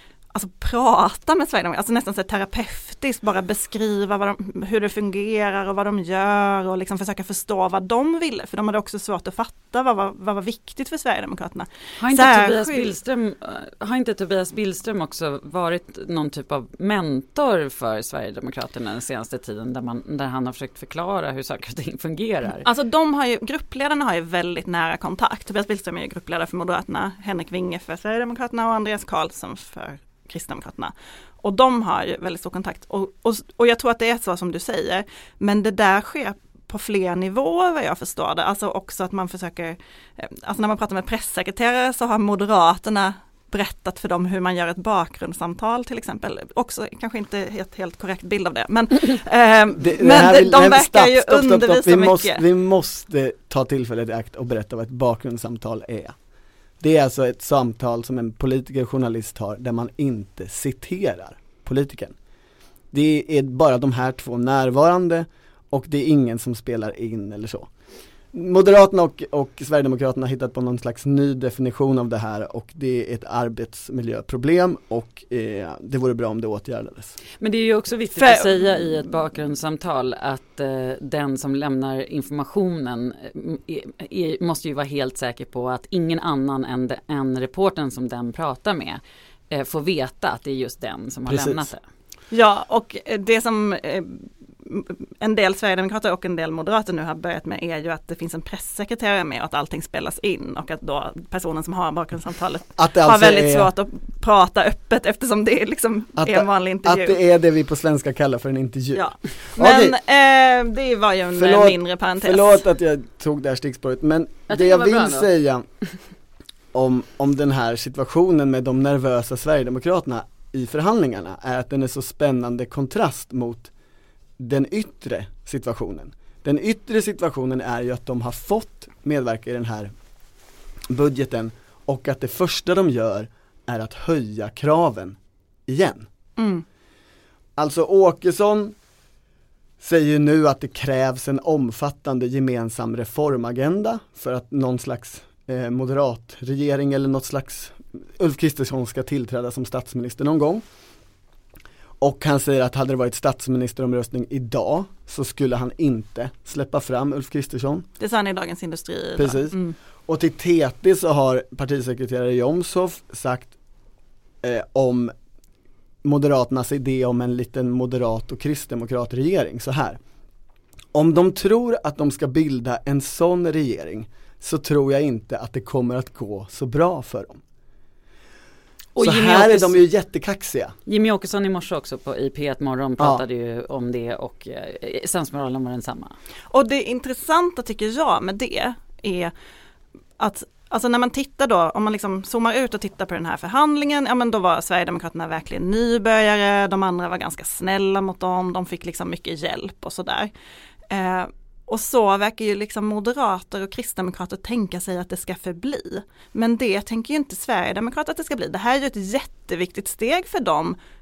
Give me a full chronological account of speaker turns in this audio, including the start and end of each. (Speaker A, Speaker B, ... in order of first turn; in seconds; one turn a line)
Speaker A: 0.3-12.9
Speaker B: 12.0-22.6
Speaker A: 22.6-52.4
Speaker C: 49.8-56.1
Speaker C: 56.8-62.1
Speaker C: 62.9-67.7
Speaker C: 68.3-77.2
Speaker B: 77.4-89.0
Speaker A: 78.2-78.5
Speaker B: 89.5-91.8
Speaker C: 91.3-91.7
Speaker A: 92.3-107.2
Speaker C: 102.8-103.7
Speaker C: 106.2-110.0
Speaker A: 108.9-112.6
Speaker C: 111.3-115.6
Speaker B: 114.5-115.3
Speaker C: 116.7-123.7
Speaker C: 124.4-129.9
Speaker C: 130.9-136.1
Speaker A: 136.4-136.6
Speaker C: 137.6-138.7
Speaker C: 139.8-150.6
Speaker C: 152.0-157.8
Speaker A: 158.0-159.8
Speaker C: 159.2-159.6
Speaker C: 160.1-163.5
Speaker C: 164.4-165.1
Speaker C: 166.0-170.0
Speaker C: 170.9-177.4
Speaker B: 178.9-179.8
Speaker C: 179.0-180.7
Speaker B: 180.9-186.2
Speaker A: 186.5-189.3
Speaker A: 190.2-200.3
Speaker A: 200.9-210.8